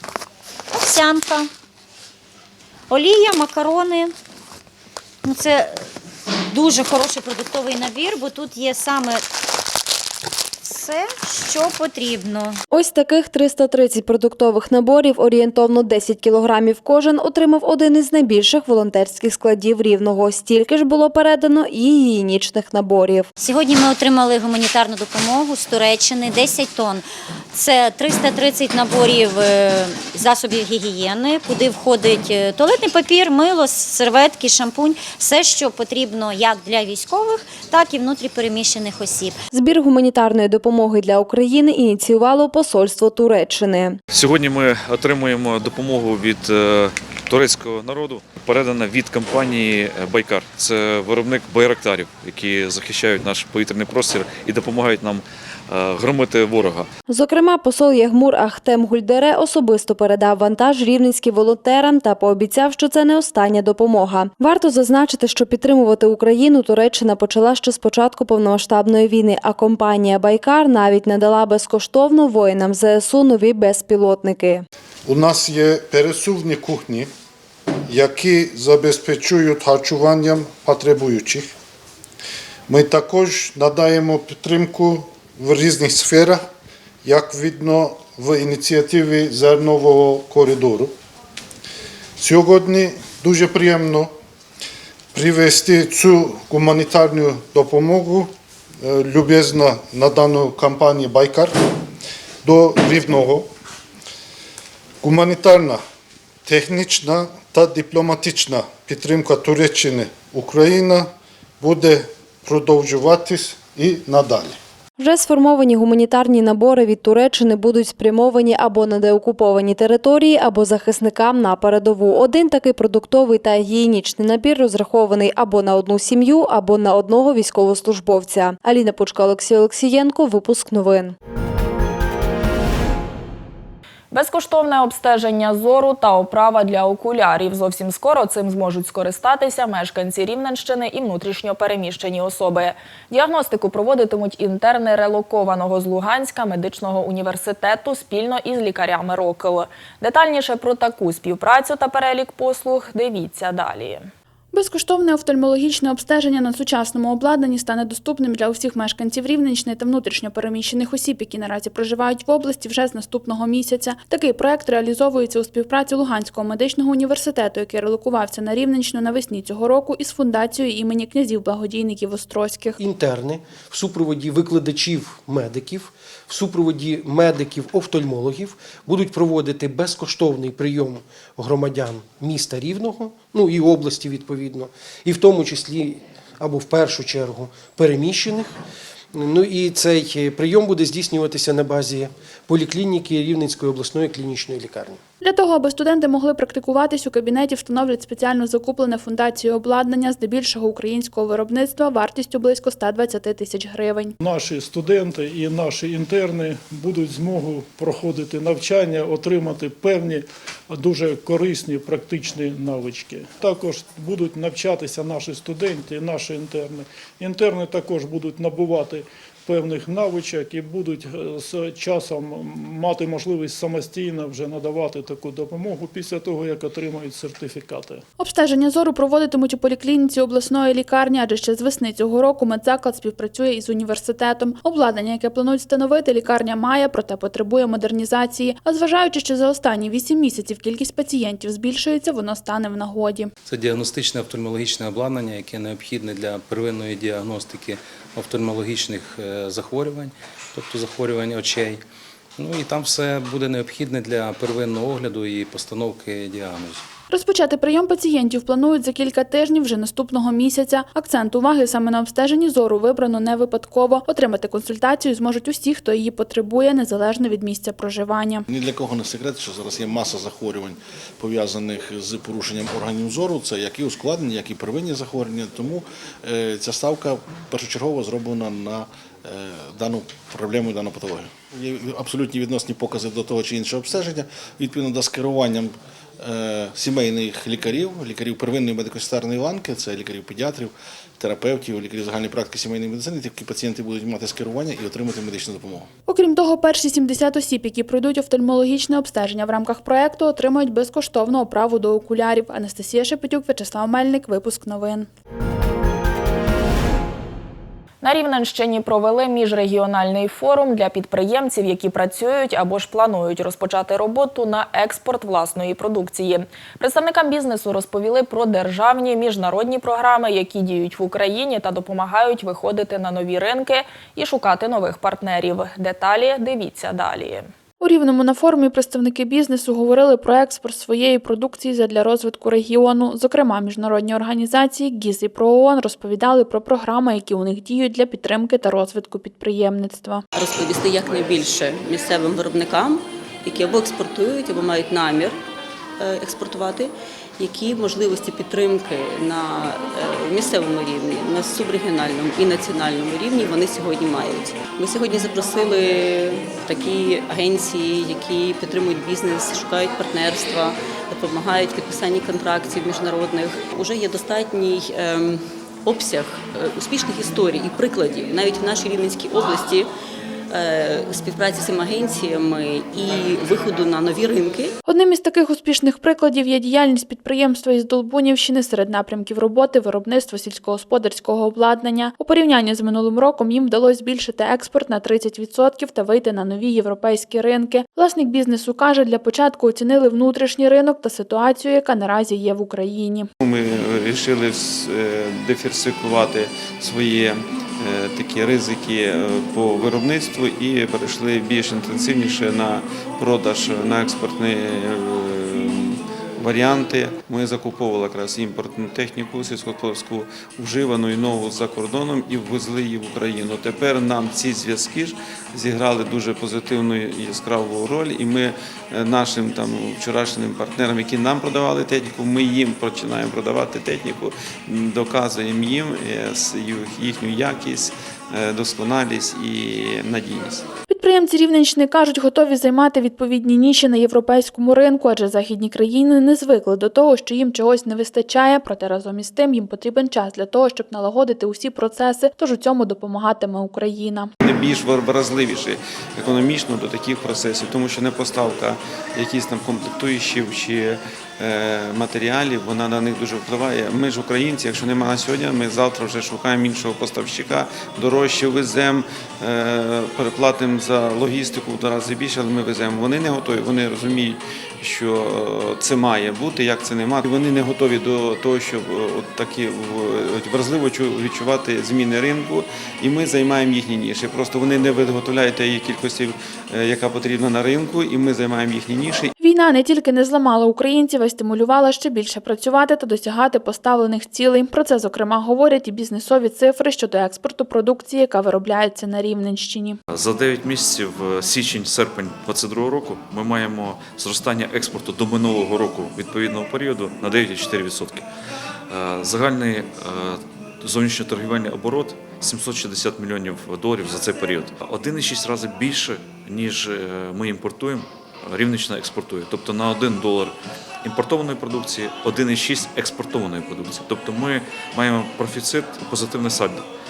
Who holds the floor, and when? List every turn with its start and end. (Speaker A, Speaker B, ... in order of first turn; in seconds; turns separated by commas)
Speaker A: 0.7-1.5, Speaker A: 2.9-4.1, Speaker A: 5.2-5.9, Speaker A: 6.5-9.2, Speaker A: 10.6-12.6, Speaker B: 12.7-23.3, Speaker A: 23.4-39.4, Speaker B: 39.5-44.0, Speaker C: 44.1-56.9, Speaker B: 57.1-74.6, Speaker D: 75.0-77.1, Speaker D: 77.9-81.5, Speaker D: 82.7-86.4, Speaker D: 87.0-90.9, Speaker D: 92.2-94.1, Speaker D: 95.1-98.3, Speaker D: 98.8-101.6, Speaker D: 102.4-103.5, Speaker D: 105.0-105.8, Speaker D: 106.5-111.1, Speaker D: 111.6-114.6, Speaker B: 115.0-131.2, Speaker E: 134.1-154.1, Speaker F: 154.5-172.8, Speaker G: 172.8-188.6, Speaker G: 189.1-195.0, Speaker F: 195.2-204.1, Speaker H: 204.2-228.0, Speaker F: 228.2-243.3, Speaker I: 243.4-251.8, Speaker I: 252.4-256.8, Speaker F: 257.1-268.4, Speaker J: 268.5-295.9, Speaker F: 296.1-305.1, Speaker E: 308.0-327.5, Speaker F: 327.8-340.2, Speaker K: 340.3-345.4, Speaker K: 346.0-369.9, Speaker K: 370.5-374.7, Speaker F: 374.8-393.3, Speaker L: 393.4-430.6, Speaker F: 430.9-444.3, Speaker L: 444.4-479.3, Speaker F: 479.4-490.0, Speaker C: 490.1-498.2, Speaker C: 498.9-516.9